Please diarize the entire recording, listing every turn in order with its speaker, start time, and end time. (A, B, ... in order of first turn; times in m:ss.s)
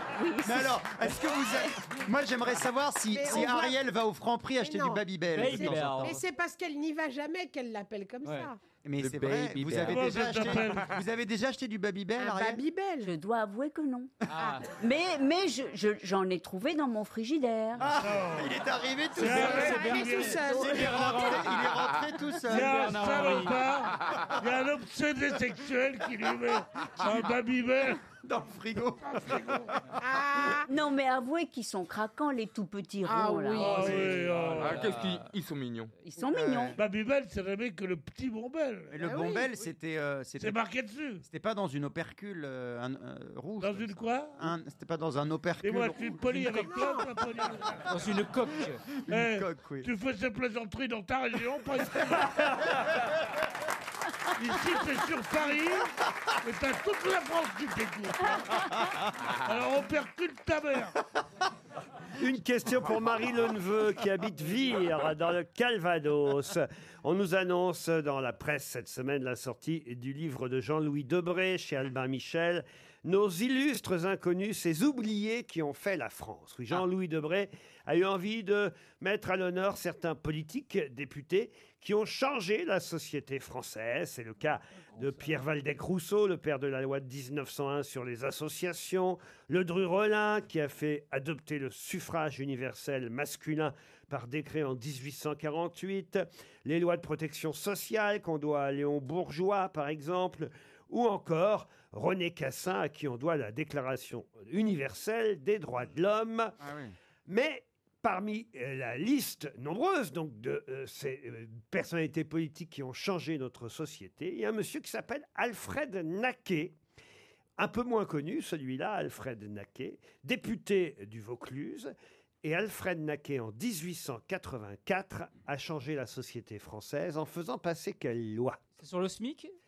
0:00.1-0:01.7 A
0:00.4-0:06.1 B
0:03.1-0:03.8 C
0:04.6-0:08.6 C
0:05.3-0:06.2 D
0:08.2-0:08.5 D
0:08.8-0:12.6 B
0:09.0-0:10.8 E
0:09.8-0:10.9 F
0:12.2-0:13.1 C
0:13.0-0:14.1 A
0:14.3-0:14.7 D
0:14.3-0:14.6 C
0:14.7-0:17.9 A
0:17.8-0:19.8 B
0:17.9-0:18.6 F
0:19.1-0:20.4 F
0:19.2-0:21.8 D
0:19.4-0:20.9 C
0:20.5-0:22.8 B
0:22.4-0:23.6 D
0:22.5-0:28.0 F
0:28.2-0:29.6 B
0:29.2-0:29.7 F
0:30.0-0:30.7 C
0:30.7-0:34.0 A
0:33.0-0:33.9 C
0:33.6-0:34.9 F
0:33.6-0:35.3 D
0:34.6-0:35.9 E
0:36.0-0:36.8 A
0:36.3-0:36.8 B
0:36.8-0:39.0 F
0:38.9-0:40.6 B
0:39.0-0:39.5 C
0:40.4-0:41.2 F
0:41.2-0:46.7 B
0:43.6-0:44.4 F
0:45.6-0:47.8 F
0:46.6-0:47.1 C
0:47.9-0:48.8 D
0:48.9-0:49.9 B
0:49.1-0:52.7 F
0:54.4-0:58.7 F
0:59.4-1:00.9 F
1:02.2-1:46.6 G
1:46.6-1:46.9 B
1:47.2-1:56.7 G
1:57.6-2:08.6 G
2:08.8-2:09.5 D